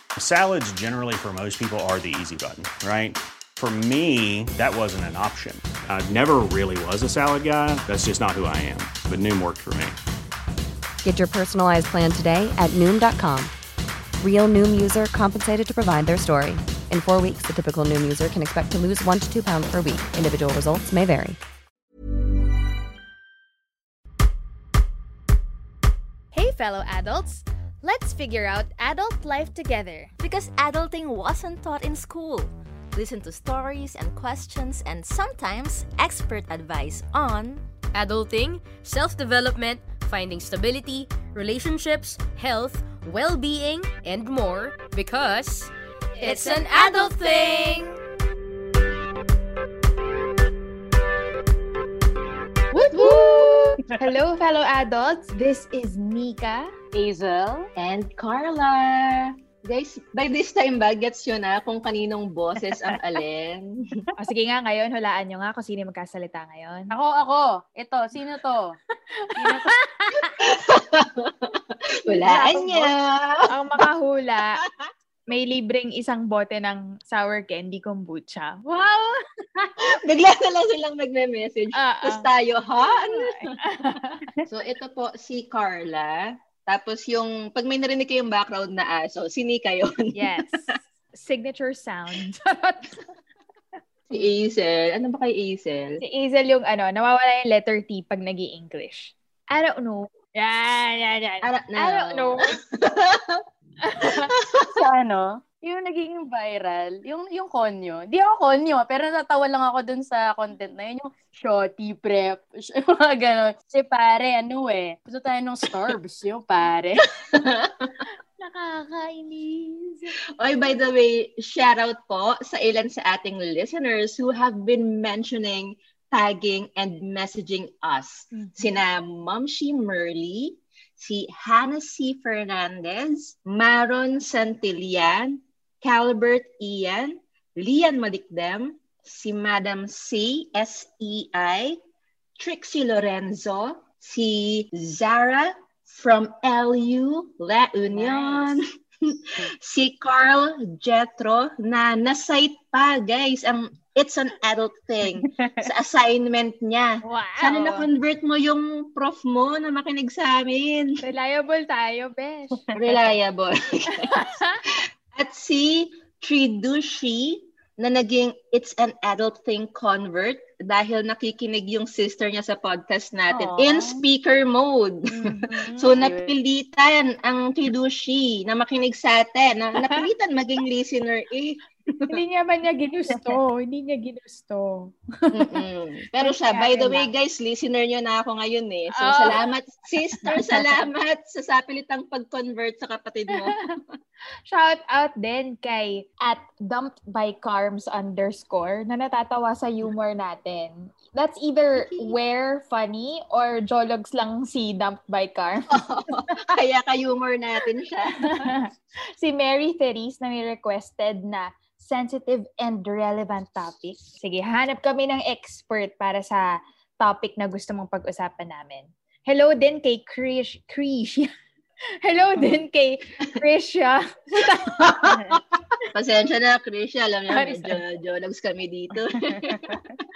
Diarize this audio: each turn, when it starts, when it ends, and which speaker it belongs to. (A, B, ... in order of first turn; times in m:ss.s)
0:00.2-0:10.0 A
0:11.0-0:13.5 B
0:14.2-0:21.4 B
0:26.3-0:30.1 C
0:30.2-0:37.6 D
0:37.9-0:45.7 E
0:46.2-0:46.6 C
0:46.2-0:48.0 E
0:52.7-0:56.7 C
0:52.9-0:53.7 F
0:57.0-0:57.7 G
0:57.8-1:04.0 F
1:04.2-1:06.9 C
1:06.9-1:08.8 G
1:09.2-1:10.3 C
1:09.4-1:09.7 G
1:10.4-1:13.8 F
1:12.1-1:12.9 C
1:13.5-1:14.6 C
1:15.3-1:19.8 C
1:20.0-1:23.5 F
1:21.8-1:22.3 C
1:22.9-1:24.2 C
1:24.5-1:30.4 F
1:30.2-1:33.0 C
1:34.1-1:36.0 F
1:36.0-1:42.5 C
1:41.4-1:43.4 F
1:43.8-1:44.3 C
1:44.4-1:44.8 F
1:44.8-1:57.0 G
1:57.3-1:58.0 F
1:58.4-2:00.1 C
2:00.4-2:21.8 F
2:08.3-2:08.7 C
2:22.4-2:41.0 F
2:28.0-2:28.6 G
2:35.2-2:35.7 G
2:37.0-2:37.9 C
2:41.0-2:43.0 C
2:42.7-2:44.1 F
2:43.9-2:44.6 C
2:45.1-3:02.2 F
2:53.3-2:54.0 G
2:55.1-2:56.0 C
2:56.0-2:56.3 G
3:02.1-3:05.5 C
3:05.3-3:13.6 F
3:06.2-3:07.1 C
3:09.0-3:09.4 C
3:13.4-3:13.8 C
3:14.5-3:25.8 C
3:21.8-3:22.2 F
3:25.7-3:28.5 F
3:28.2-3:28.7 C
3:29.2-3:41.3 C
3:42.0-3:44.8 C
3:44.8-3:45.4 F
3:45.9-3:49.8 F
3:47.3-3:47.8 C
3:49.5-3:50.0 G